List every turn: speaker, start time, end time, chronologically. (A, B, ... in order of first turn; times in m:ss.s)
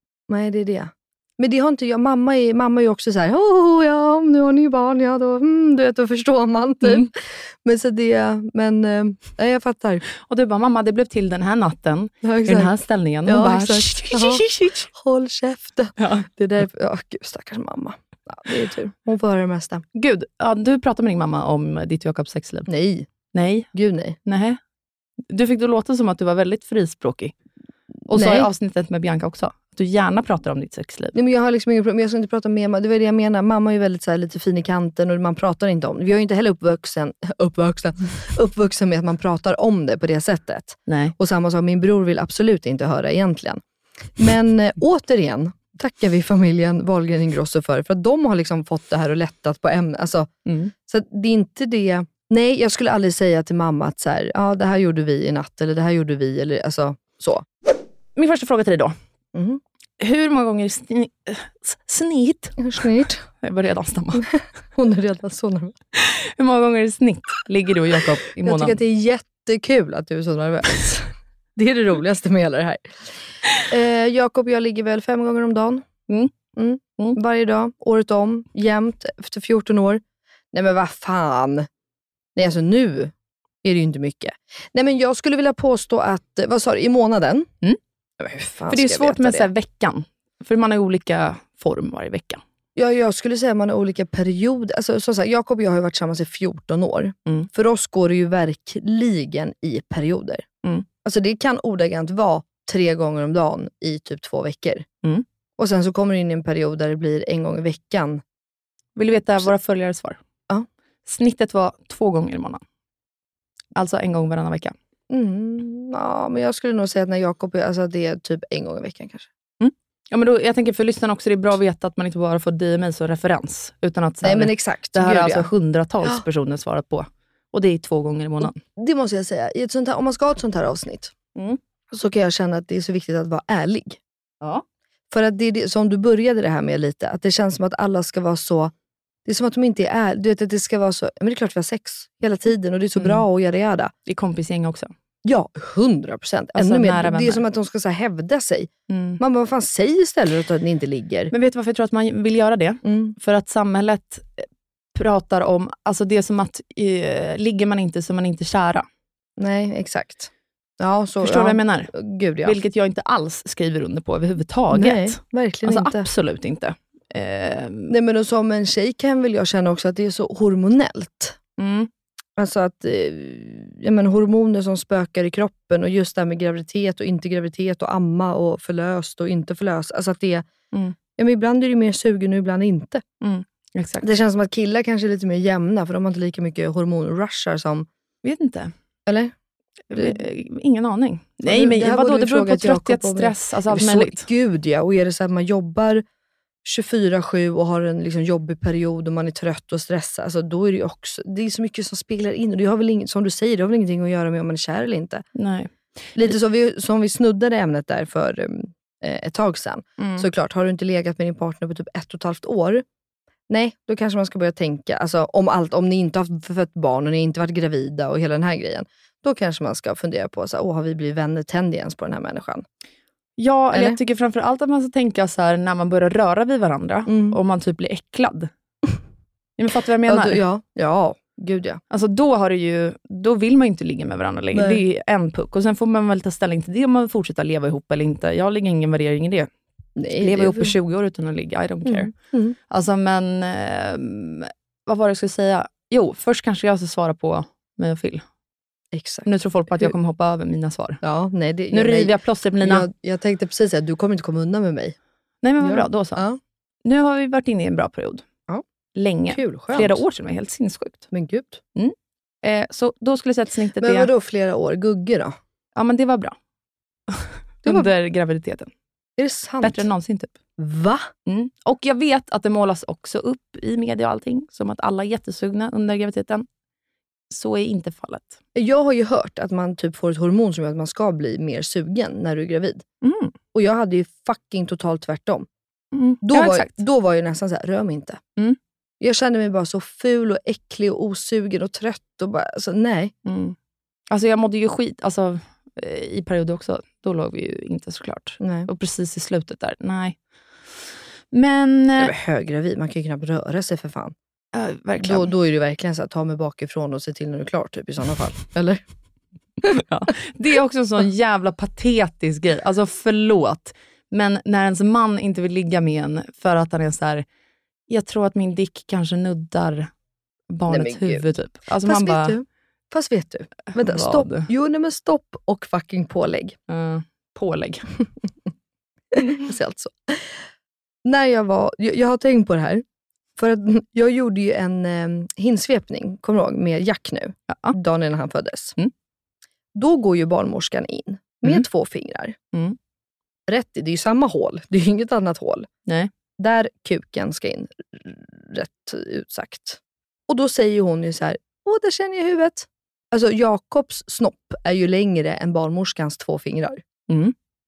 0:00.3-0:07.1 A
0:07.6-0:10.0 A
0:10.3-0:14.9 B
0:12.2-0:12.7 A
0:13.3-0:14.4 A
0:15.0-0:19.8 A
0:16.0-0:16.2 B
0:20.0-0:22.7 B
0:22.7-0:23.1 A
0:23.3-0:23.7 B
0:23.7-0:24.2 A
0:24.3-0:24.6 B
0:25.3-0:27.3 B
0:28.1-0:31.1 B
0:28.1-0:28.5 A
0:31.2-0:43.6 A
0:40.9-0:41.1 B
0:44.2-0:50.3 A
0:50.5-0:50.7 B
0:50.9-0:57.4 A
0:58.2-0:58.9 B
0:59.3-0:59.6 A
1:00.0-1:02.6 B
1:02.6-1:03.2 A
1:03.4-1:04.2 B
1:04.8-1:05.8 A
1:06.0-1:08.8 B
1:08.5-1:12.8 A
1:13.7-1:15.9 A
1:16.6-1:20.0 A
1:20.5-1:21.7 A
1:22.4-1:23.1 A
1:23.6-1:27.5 A
1:28.2-1:29.5 A
1:28.7-1:32.4 B
1:32.8-1:40.4 A
1:41.0-1:44.8 A
1:45.6-1:48.2 A
1:49.0-1:50.2 B
1:51.1-1:52.6 B
1:53.8-1:54.8 B
1:55.1-1:59.3 A
1:59.6-2:08.6 B
2:04.2-2:05.5 A
2:08.4-2:11.1 A
2:11.9-2:14.0 A
2:15.1-2:18.7 A
2:19.3-2:23.9 A
2:23.0-2:23.2 B
2:24.1-2:24.9 B
2:25.2-2:31.3 A
2:26.6-2:27.4 B
2:28.9-2:29.2 B
2:31.3-2:34.4 B
2:32.8-2:33.2 A
2:35.0-2:38.9 B
2:39.4-2:42.6 A
2:41.2-2:41.9 B
2:42.4-2:47.9 B
2:44.7-2:46.1 A
2:47.9-2:51.4 A
2:51.6-2:51.9 B
2:52.4-3:00.5 A
3:01.2-3:03.0 A
3:03.2-3:04.0 B
3:04.0-3:07.9 A
3:08.2-3:08.7 B
3:09.1-3:09.3 A
3:09.9-3:14.2 B
3:09.9-3:10.2 A
3:11.5-3:16.0 A
3:16.6-3:25.2 A
3:25.4-3:25.7 B
3:26.2-3:32.8 A
3:30.0-3:30.3 B
3:33.5-3:42.6 A
3:43.4-3:48.5 B
3:43.7-3:44.0 A
3:47.1-3:47.4 A
3:49.6-3:50.4 B
3:50.1-3:51.8 A
3:51.9-3:59.5 B
3:54.5-3:54.8 A
4:00.0-4:00.7 A
4:00.2-4:02.1 B
4:01.8-4:02.6 A
4:02.7-4:08.2 B
4:08.9-4:09.9 A
4:09.3-4:11.0 B
4:11.0-4:15.0 A
4:11.7-4:12.9 B
4:15.4-4:16.2 B
4:15.6-4:16.4 A
4:16.8-4:18.2 B
4:19.0-4:21.1 B
4:19.3-4:20.0 A
4:21.1-4:21.6 A
4:21.8-4:24.1 B
4:23.8-4:25.4 A
4:25.8-4:26.4 B
4:27.1-4:28.7 B
4:29.2-4:29.8 A
4:29.6-4:30.3 B
4:30.6-4:31.1 A
4:31.3-4:36.5 B
4:37.3-4:38.4 B
4:38.6-4:42.8 A
4:43.0-4:43.4 B
4:43.5-4:45.5 A
4:45.9-4:46.7 B
4:46.2-4:48.2 A
4:49.0-4:53.1 A
4:53.3-4:53.6 B
4:54.1-5:00.2 B
4:58.4-4:58.7 A
5:01.3-5:02.1 B
5:02.0-5:04.2 A
5:04.5-5:05.3 B
5:05.0-5:08.8 A
5:09.7-5:17.2 B
5:17.9-5:19.9 B
5:20.5-5:22.4 B
5:20.7-5:21.2 A
5:21.8-5:26.6 A
5:23.7-5:24.5 B
5:26.7-5:27.9 B
5:29.1-5:29.9 A
5:31.0-5:32.8 A
5:33.4-5:38.8 A
5:37.5-5:37.8 B
5:39.8-5:42.4 A
5:43.5-5:45.7 A
5:46.4-5:56.8 A
5:57.1-5:57.3 B